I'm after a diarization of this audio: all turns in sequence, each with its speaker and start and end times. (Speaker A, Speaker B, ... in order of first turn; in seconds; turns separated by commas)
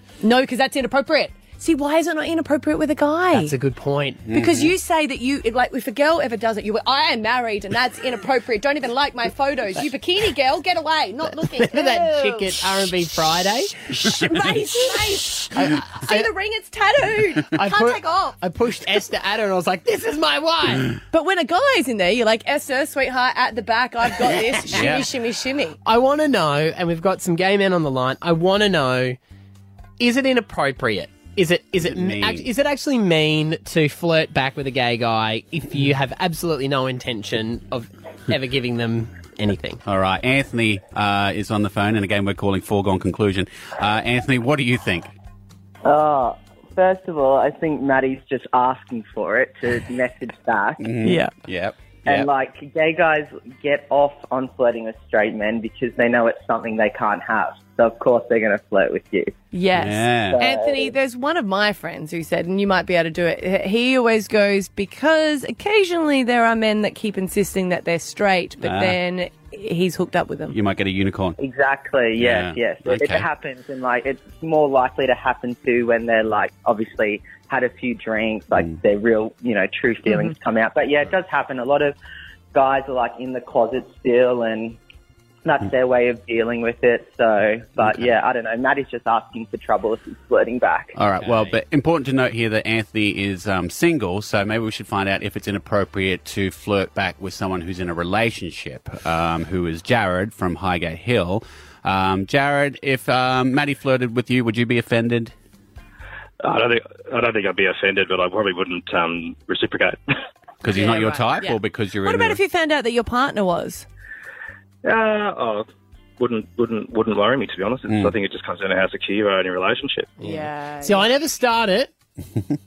Speaker A: 0.2-3.5, Speaker B: 3.3-4.3, Speaker C: 4.3-4.7, Speaker A: 4.3-12.6, Speaker B: 11.6-13.7, Speaker A: 13.9-18.4, Speaker B: 15.5-16.3, Speaker B: 17.5-20.9, Speaker A: 21.1-25.8, Speaker B: 24.4-25.0, Speaker C: 24.7-25.1, Speaker B: 25.8-29.2, Speaker B: 30.0-39.8, Speaker C: 31.8-32.5, Speaker C: 39.8-45.1, Speaker D: 45.8-50.8, Speaker C: 50.8-52.3, Speaker A: 51.0-51.3, Speaker D: 52.0-59.3, Speaker A: 59.5-70.5, Speaker C: 59.7-60.4, Speaker D: 60.3-60.9, Speaker C: 68.6-69.0, Speaker C: 70.5-71.4, Speaker D: 71.4-81.9, Speaker C: 72.1-73.3, Speaker D: 82.5-84.8, Speaker D: 85.4-90.9, Speaker C: 87.8-88.1, Speaker C: 90.9-105.3, Speaker B: 91.2-91.6, Speaker E: 106.4-110.0, Speaker C: 110.6-112.4, Speaker A: 110.7-113.8, Speaker E: 114.8-115.7, Speaker E: 116.2-120.2, Speaker C: 117.9-118.2, Speaker B: 120.2-121.9, Speaker A: 120.2-121.1